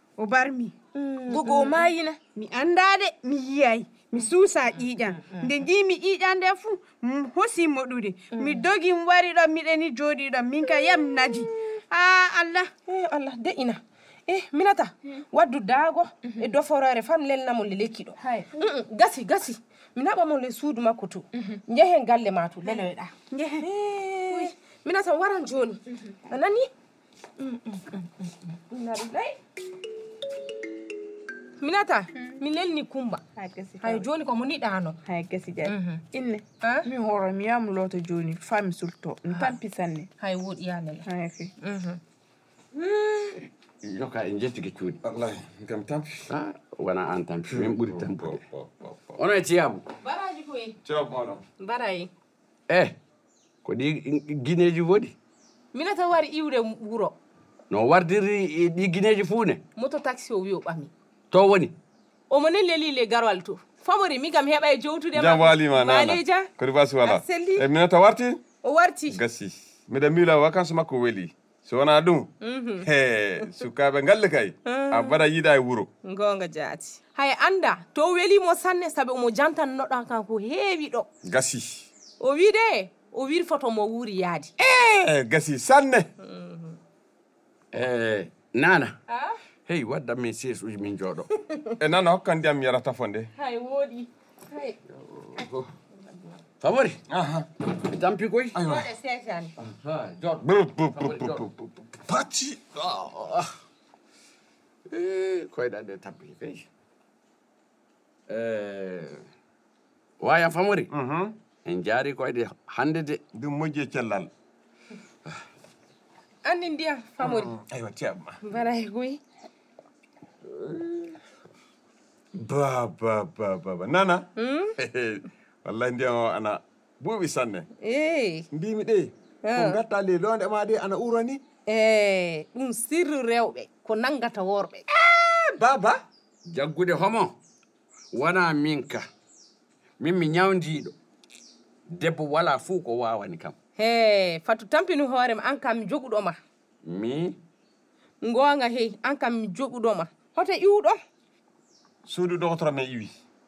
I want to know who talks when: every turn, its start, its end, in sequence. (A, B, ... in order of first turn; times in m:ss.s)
0:00.2-0:00.7 A
0:00.9-0:01.9 B
0:01.3-0:02.2 C
0:02.3-0:12.7 A
0:05.2-0:05.5 B
0:08.3-0:08.6 B
0:12.8-0:26.7 B
0:18.2-0:18.5 C
0:23.3-0:23.6 A
0:27.4-0:27.8 B
0:28.7-0:29.4 B
0:31.6-0:33.2 B
0:33.4-0:34.0 C
0:33.8-0:35.0 B
0:35.0-0:40.1 C
0:35.6-0:36.0 B
0:36.6-0:36.9 B
0:39.3-0:39.6 B
0:40.2-0:41.1 B
0:41.0-0:41.5 C
0:41.6-0:42.0 B
0:42.8-0:43.4 B
0:43.8-0:45.0 D
0:45.0-0:46.3 E
0:46.3-0:48.4 D
0:47.5-0:49.2 E
0:49.2-0:49.8 D
0:50.0-0:50.8 B
0:50.8-0:51.4 E
0:51.6-0:52.1 B
0:52.7-0:53.0 D
0:53.6-0:55.1 D
0:55.7-0:57.2 B
0:57.7-0:59.6 D
0:59.8-1:00.9 B
1:01.3-1:01.8 D
1:02.3-1:06.5 B
1:05.1-1:08.4 E
1:07.0-1:07.7 B
1:08.6-1:09.2 B
1:09.1-1:15.9 E
1:12.4-1:12.9 B
1:14.6-1:15.2 B
1:16.0-1:21.1 B
1:21.2-1:21.9 E
1:22.2-1:24.5 B
1:24.8-1:26.1 E
1:26.2-1:26.8 B
1:27.7-1:29.0 D
1:29.1-1:29.3 B
1:29.6-1:31.3 D
1:31.8-1:33.3 E
1:33.4-1:34.8 B
1:35.1-1:35.7 D
1:36.6-1:37.0 D
1:37.1-1:37.5 E
1:37.7-1:38.6 D
1:38.5-1:38.9 E
1:38.6-1:39.5 B
1:39.6-1:41.5 D
1:40.4-1:42.6 E
1:42.7-1:43.5 D
1:44.9-1:46.6 D
1:48.3-1:49.2 D
1:50.2-1:50.9 D
1:50.9-1:51.4 E
1:51.6-1:53.2 D
1:53.3-1:54.3 E
1:56.4-1:57.6 B
1:57.2-1:58.4 E
1:58.4-1:59.2 B
2:02.3-2:04.2 E
2:04.4-2:04.7 B
2:04.8-2:07.7 E
2:07.8-2:08.5 B
2:08.5-2:11.4 E
2:09.4-2:09.8 B
2:11.7-2:14.8 B
2:14.9-2:16.0 E
2:16.5-2:17.4 D
2:18.1-2:19.1 D
2:20.0-2:20.9 D
2:21.9-2:23.5 D
2:23.8-2:26.4 B
2:26.8-2:27.4 D
2:28.2-2:31.0 B
2:32.0-2:33.2 E